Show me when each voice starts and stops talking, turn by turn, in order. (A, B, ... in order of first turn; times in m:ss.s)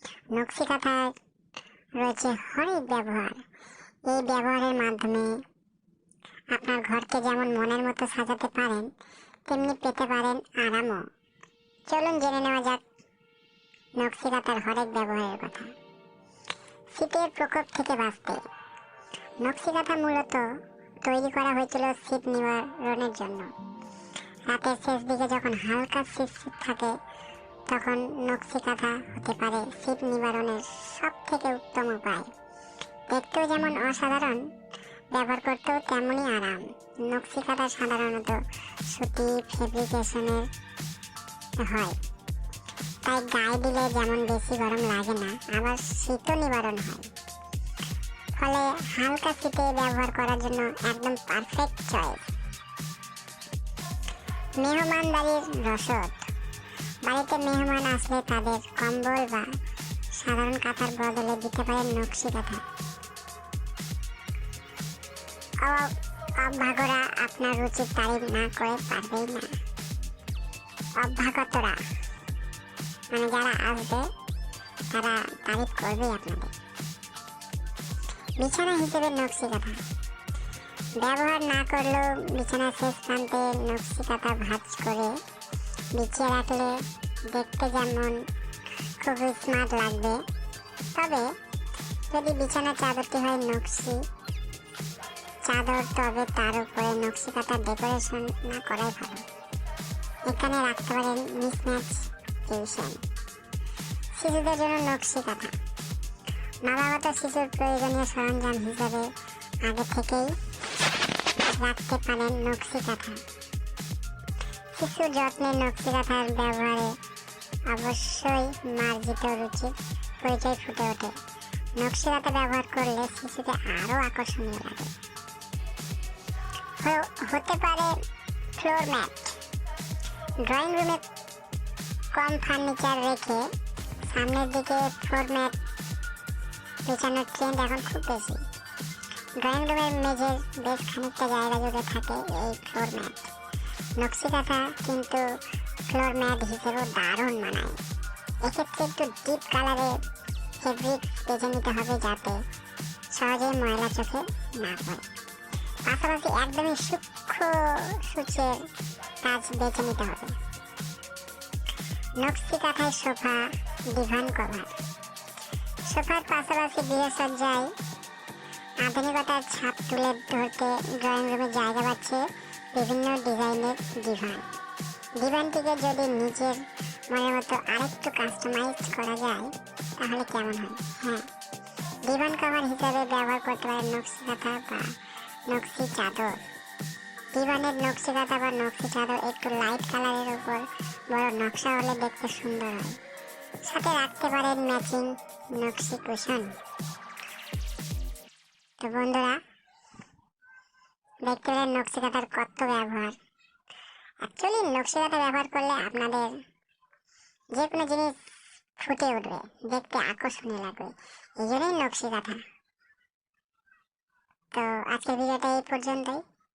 0:00.3-0:01.2 A
0:02.0-0:03.4 A
0:04.1-0:05.4 A
0:06.5-0:08.9 A
0:09.5-0:11.1 A
0:11.9-0:12.8 A
0:14.0-0:15.8 A
0:16.9-0:18.5 A
0:19.4-0:23.5 A
0:24.5-0:27.0 A
0:27.7-0:32.3 A
0:33.1-0:34.5 A
0:35.1-0:40.5 A
0:41.6-0:42.0 A
0:43.0-0:47.1 A
0:48.3-0:52.2 A
0:54.6-0:56.3 A
0:57.0-0:59.5 A
1:00.1-1:02.6 A
1:05.6-1:09.6 A
1:11.0-1:11.8 A
1:13.1-1:14.1 A
1:14.9-1:16.5 A
1:18.4-1:19.8 A
1:21.0-1:25.2 A
1:25.9-1:28.3 A
1:29.0-1:30.2 A
1:30.9-1:31.4 A
1:32.1-1:34.1 A
1:35.4-1:39.2 A
1:40.2-1:43.0 A
1:44.2-1:45.6 A
1:46.6-1:50.4 A
1:51.4-1:53.2 A
1:54.7-1:57.0 A
1:57.7-2:01.2 A
2:01.8-2:04.9 A
2:06.8-2:08.0 A
2:08.6-2:09.4 A
2:10.4-2:11.0 A
2:12.1-2:15.6 A
2:16.9-2:18.4 A
2:19.4-2:23.3 A
2:24.0-2:27.8 A
2:28.4-2:30.0 A
2:30.6-2:32.4 A
2:33.1-2:35.0 A
2:35.9-2:38.7 A
2:39.2-2:40.4 A
2:42.2-2:44.7 A
2:45.9-2:47.7 A
2:48.8-2:54.5 A
2:55.2-3:01.3 A
3:02.0-3:04.9 A
3:05.5-3:06.4 A
3:07.3-3:13.0 A
3:13.6-3:16.6 A
3:18.8-3:19.4 A
3:21.2-3:23.2 A
3:24.2-3:26.4 A
3:27.5-3:28.2 A
3:28.8-3:32.4 A
3:34.5-3:36.2 A